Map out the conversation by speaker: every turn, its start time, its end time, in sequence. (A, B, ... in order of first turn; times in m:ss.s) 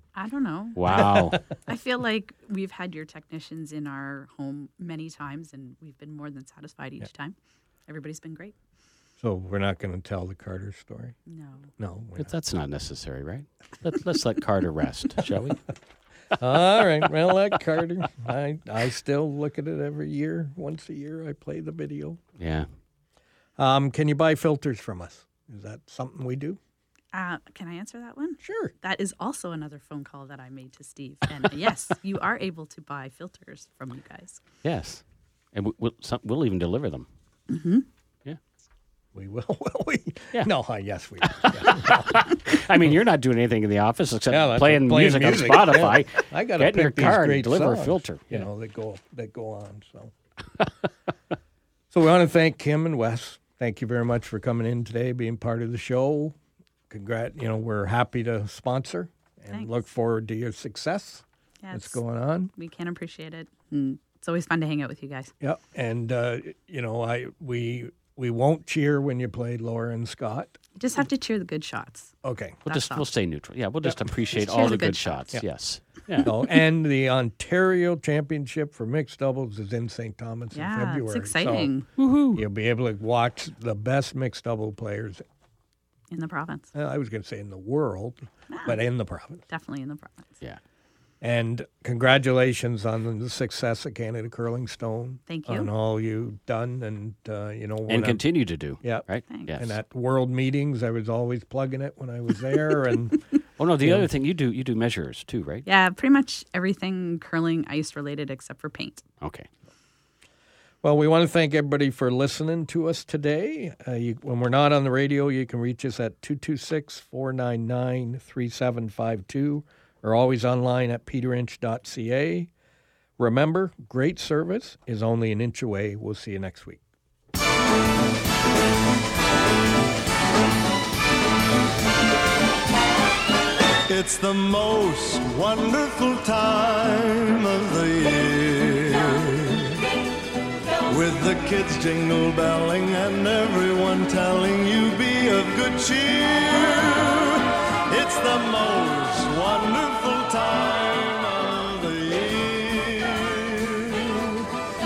0:00.1-0:07.3 A
0:00.8-0:01.4 B
0:00.9-0:01.4 C
0:07.9-0:08.6 A
0:09.2-0:11.1 C
0:11.3-0:11.7 A
0:11.8-0:12.3 C
0:12.2-0:15.6 B
0:16.4-0:22.2 C
0:22.4-0:22.7 B
0:23.6-0:26.6 C
0:27.1-0:34.4 A
0:28.4-0:28.7 C
0:34.6-0:37.1 B
0:37.5-0:37.9 A
0:39.1-0:42.6 C
0:41.2-0:48.5 B
0:44.3-0:50.1 C
0:51.9-0:56.3 C
0:56.9-1:02.5 C
0:59.5-0:59.8 A
1:01.6-1:02.0 A
1:02.6-1:05.3 A
1:05.4-1:10.6 C
1:10.8-1:12.1 A
1:12.2-1:12.6 C
1:12.6-1:16.3 B
1:12.7-1:13.0 A
1:14.3-1:15.3 A
1:16.2-1:21.7 C
1:20.5-1:21.9 A
1:22.0-1:22.4 B
1:22.3-1:25.2 C
1:26.1-1:26.7 A
1:26.7-1:29.4 C
1:28.5-1:28.8 A
1:29.5-1:30.4 A
1:31.2-1:38.2 C
1:35.3-1:35.7 A
1:37.9-1:39.7 B
1:39.3-1:39.6 A
1:39.6-1:43.2 C
1:43.6-1:45.6 B
1:45.6-1:49.0 A
1:49.2-1:49.5 B
1:50.8-2:02.5 C
2:03.2-2:06.8 C
2:13.9-2:19.8 D
2:20.8-2:34.5 D